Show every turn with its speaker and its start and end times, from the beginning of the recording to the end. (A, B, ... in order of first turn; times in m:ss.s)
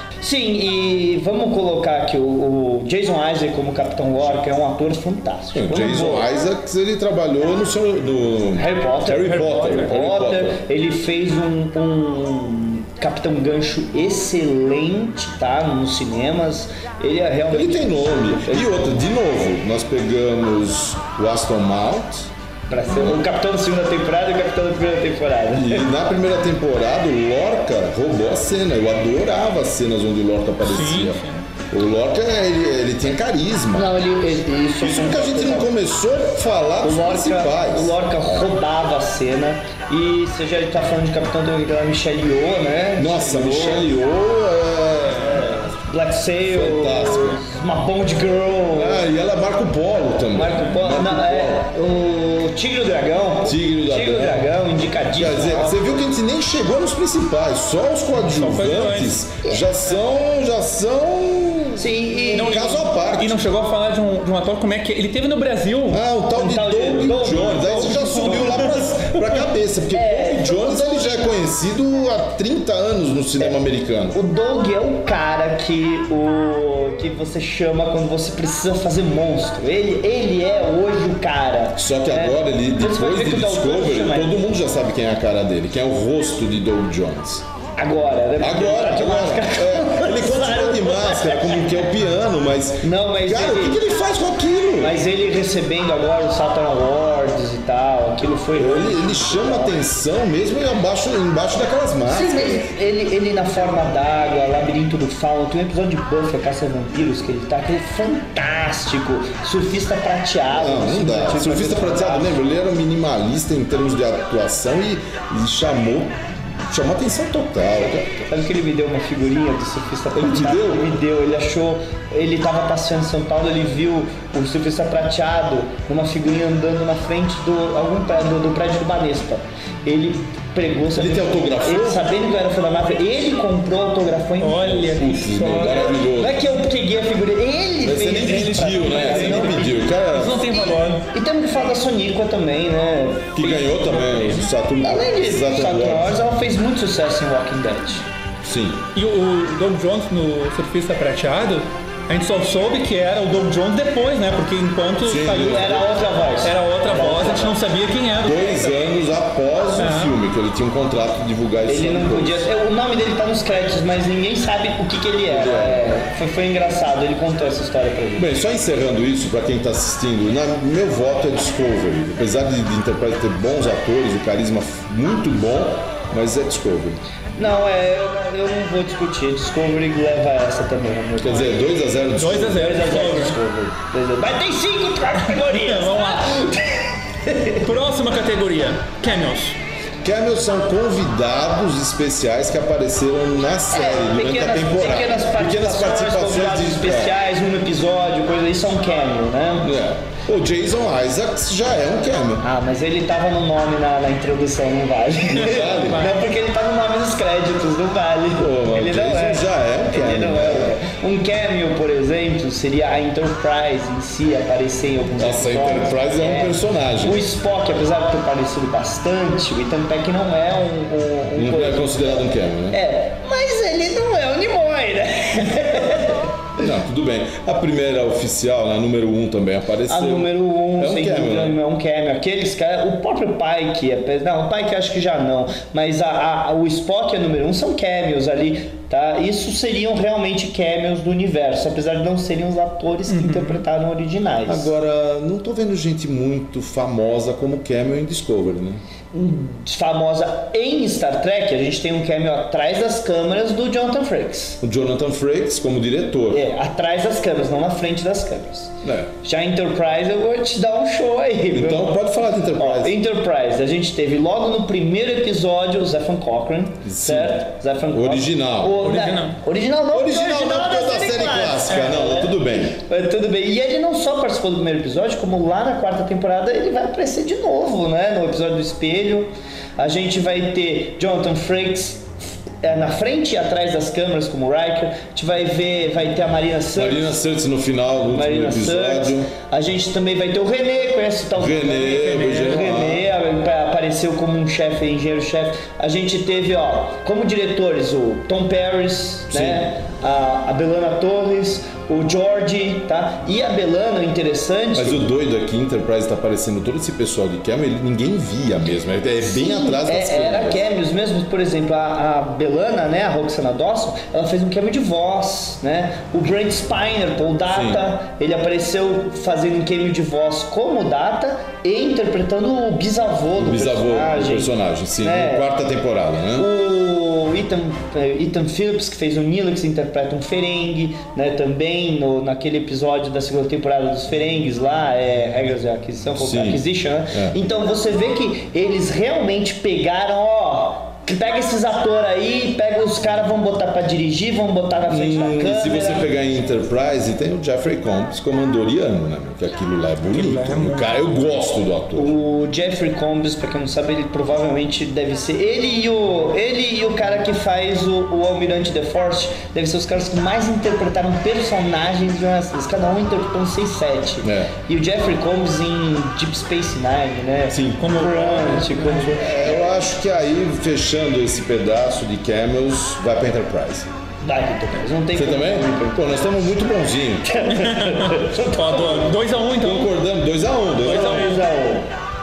0:00.2-0:06.3 A
0:05.5-0:10.6 B
0:08.6-0:18.8 A
0:09.2-0:10.0 C
0:17.5-0:22.3 B
0:22.7-0:25.9 A
0:22.9-0:23.2 B
0:25.5-0:33.9 B
0:30.6-0:31.4 C
0:33.7-0:35.7 A
0:34.8-0:38.0 B
0:36.8-0:43.9 A
0:43.0-0:45.8 B
0:45.1-0:49.1 A
0:46.4-0:47.4 B
0:48.7-0:51.6 B
0:50.3-0:55.8 A
0:53.4-0:54.5 B
0:55.1-1:03.4 B
0:58.2-0:59.2 C
1:01.8-1:02.7 A
1:02.3-1:06.0 C
1:05.9-1:14.2 B
1:06.3-1:08.8 A
1:07.7-1:08.8 C
1:09.9-1:11.2 A
1:13.4-1:24.3 A
1:21.8-1:27.4 B
1:27.8-1:31.9 A
1:28.4-1:35.0 B
1:32.8-1:33.8 A
1:34.8-1:39.8 A
1:38.5-1:42.7 B
1:42.1-1:52.4 A
1:50.5-1:58.2 B
1:58.1-2:28.1 A
2:00.1-2:01.0 B
2:10.9-2:12.1 B
2:14.4-2:15.9 C
2:14.9-2:16.5 B
2:17.8-2:20.5 B
2:19.0-2:19.5 C
2:20.1-2:21.0 C
2:23.3-2:26.2 B
2:28.4-2:28.8 B
2:29.0-2:35.8 C
2:35.0-2:35.9 B
2:35.3-2:37.6 A
2:36.4-2:38.6 C
2:38.2-2:42.5 B
2:39.8-2:40.2 C
2:41.7-2:48.3 A
2:45.3-2:46.0 B
2:48.2-2:57.0 B
2:57.4-3:01.7 A
3:01.2-3:02.9 B
3:02.2-3:03.4 C
3:02.5-3:07.7 A
3:05.3-3:06.4 C
3:07.6-3:09.6 C
3:10.0-3:17.1 B
3:13.7-3:19.7 A
3:19.6-3:22.5 B
3:22.4-3:42.0 A
3:25.4-3:26.1 B
3:28.4-3:30.8 B
3:35.2-3:37.3 B
3:41.3-3:42.8 B
3:42.7-3:46.5 A
3:46.6-3:51.6 B
3:49.9-4:04.7 A
4:03.1-4:03.6 C
4:04.5-4:08.8 B
4:09.1-4:14.6 A
4:14.6-4:16.4 B
4:16.3-4:22.0 A
4:18.8-4:19.1 B
4:21.5-4:23.0 B
4:22.6-4:47.2 A
4:26.8-4:28.9 B
4:28.8-4:29.4 C
4:29.9-4:32.8 B
4:46.8-4:49.3 B
4:48.1-5:05.1 A
4:51.4-4:53.1 B
4:59.3-4:59.7 B
5:04.8-5:10.6 B
5:09.2-5:25.5 A
5:17.5-5:17.8 B
5:23.4-5:26.5 B
5:26.4-5:46.2 A
5:36.2-5:37.4 B
5:44.9-5:52.2 B
5:50.1-5:50.9 C
5:51.9-6:09.7 A
6:04.2-6:04.5 B
6:07.5-6:13.9 B
6:07.8-6:08.6 C
6:14.2-6:16.1 A
6:15.2-6:17.3 B
6:17.2-6:19.1 A
6:17.5-6:19.9 C
6:19.6-6:21.3 B
6:20.8-6:21.4 C
6:20.8-6:21.9 A